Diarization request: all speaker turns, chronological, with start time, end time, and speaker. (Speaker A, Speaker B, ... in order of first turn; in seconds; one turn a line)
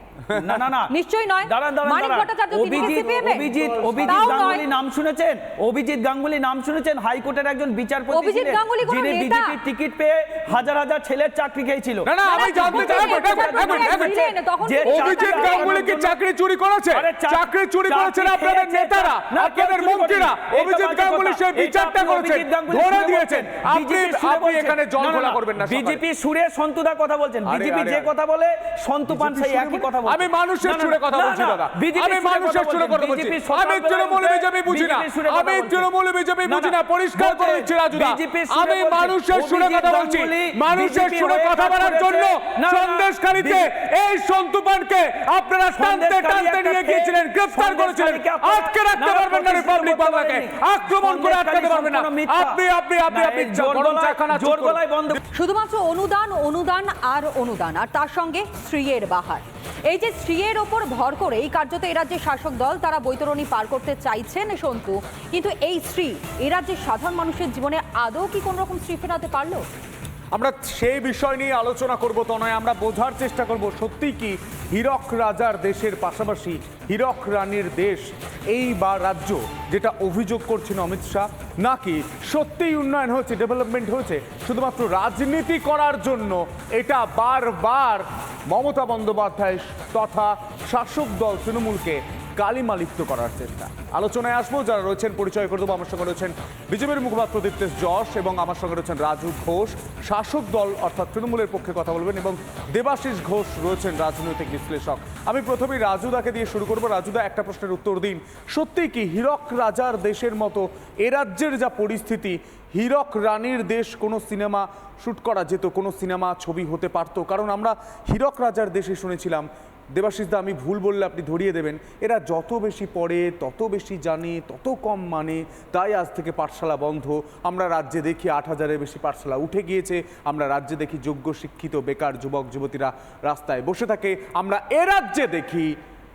Speaker A: 0.3-0.9
Speaker B: 0.9-4.6
Speaker A: 1.4-16.1
Speaker B: 8.1-9.6
Speaker C: 12.1-14.2
Speaker B: 12.2-15.8
Speaker C: 14.8-26.0
Speaker A: 16.9-35.9
Speaker C: 27.4-28.1
Speaker C: 29.1-55.2
Speaker A: 36.4-43.7
Speaker A: 45.7-55.2
Speaker B: 55.3-69.6
Speaker C: 70.3-135.7